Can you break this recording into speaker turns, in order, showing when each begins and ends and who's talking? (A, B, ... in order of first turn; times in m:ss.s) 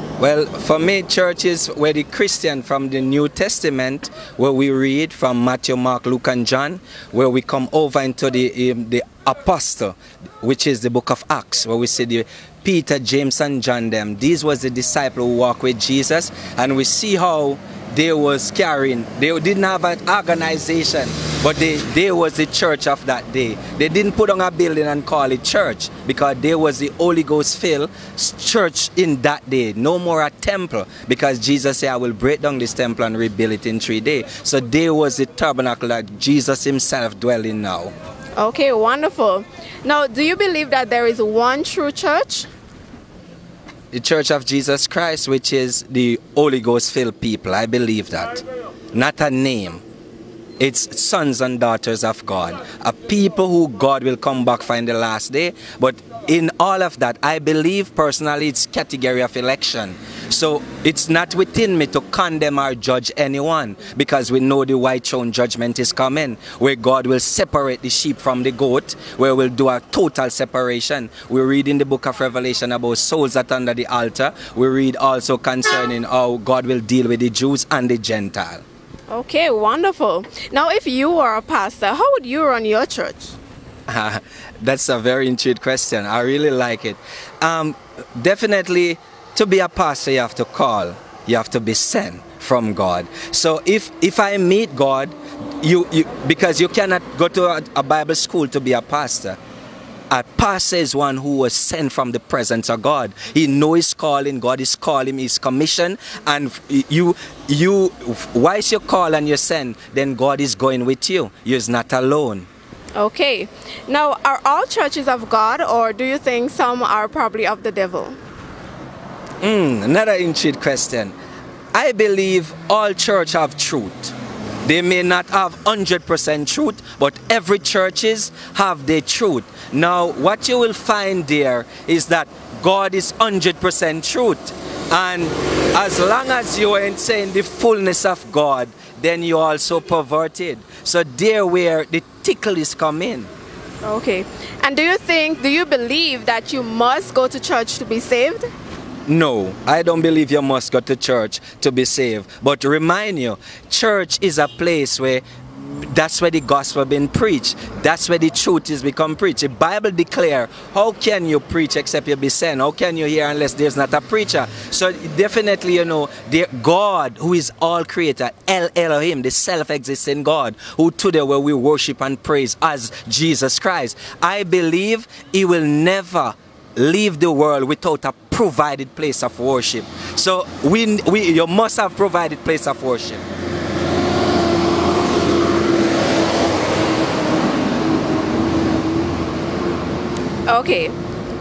0:00.2-0:37.9 A
0:38.4-0:42.5 B
0:43.9-0:49.8 A
0:50.6-1:18.6 A
1:19.1-1:23.4 B
1:23.9-1:39.4 A
1:40.1-1:52.5 A
1:53.0-1:58.2 B
1:59.4-2:01.1 A
2:01.7-2:23.3 A
2:23.8-2:28.5 B
2:29.1-3:03.2 A
3:10.5-3:11.0 B